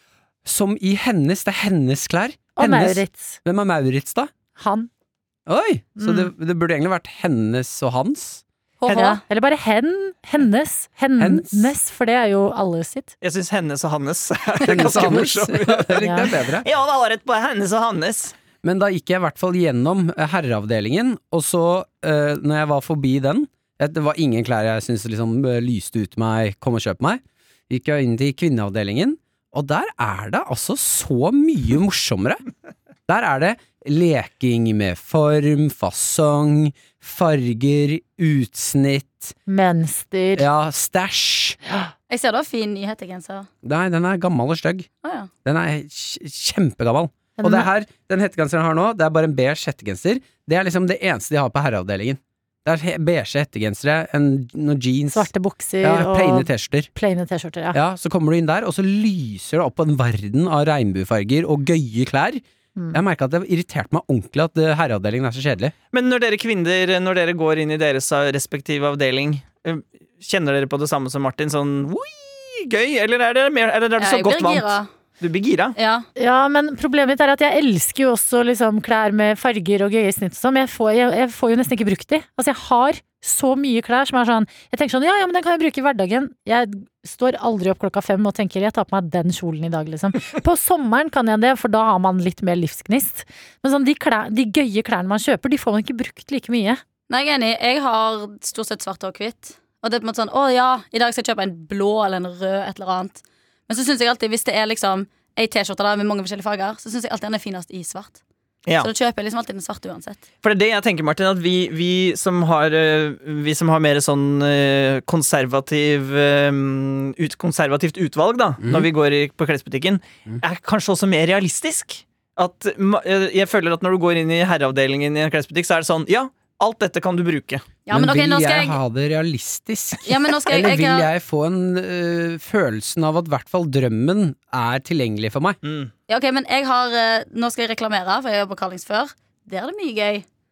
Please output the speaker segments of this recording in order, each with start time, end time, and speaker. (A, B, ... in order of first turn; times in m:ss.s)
0:00.4-0:04.3 A
0:02.6-0:03.4 B
0:04.6-0:04.9 B
0:05.5-0:08.4 A
0:06.0-0:06.3 B
0:08.8-0:09.2 C
0:08.9-0:09.2 D
0:08.9-0:13.1 B
0:11.2-0:11.7 A
0:13.2-0:18.4 D
0:14.6-0:16.7 A
0:16.0-0:16.3 B
0:18.6-0:32.4 A
0:33.1-0:39.4 A
0:39.5-0:40.5 B
0:40.4-0:41.6 A
0:42.1-0:43.5 C
0:43.6-0:44.9 A
0:45.0-0:45.3 C
0:45.4-0:55.3 A
0:47.4-0:47.7 B
0:55.1-0:57.8 B
0:55.8-0:56.9 A
0:57.7-1:02.4 A
1:02.9-1:05.7 A
1:05.9-1:15.8 D
1:14.0-1:14.9 C
1:15.8-1:16.1 C
1:16.2-1:36.8 B
1:37.1-1:48.2 C
1:48.8-1:50.2 C
1:50.4-2:07.7 D
1:58.6-1:58.9 A
2:07.9-2:08.8 C
2:07.9-2:15.6 A
2:10.0-2:11.1 C
2:15.6-2:15.9 D
2:16.1-2:20.2 C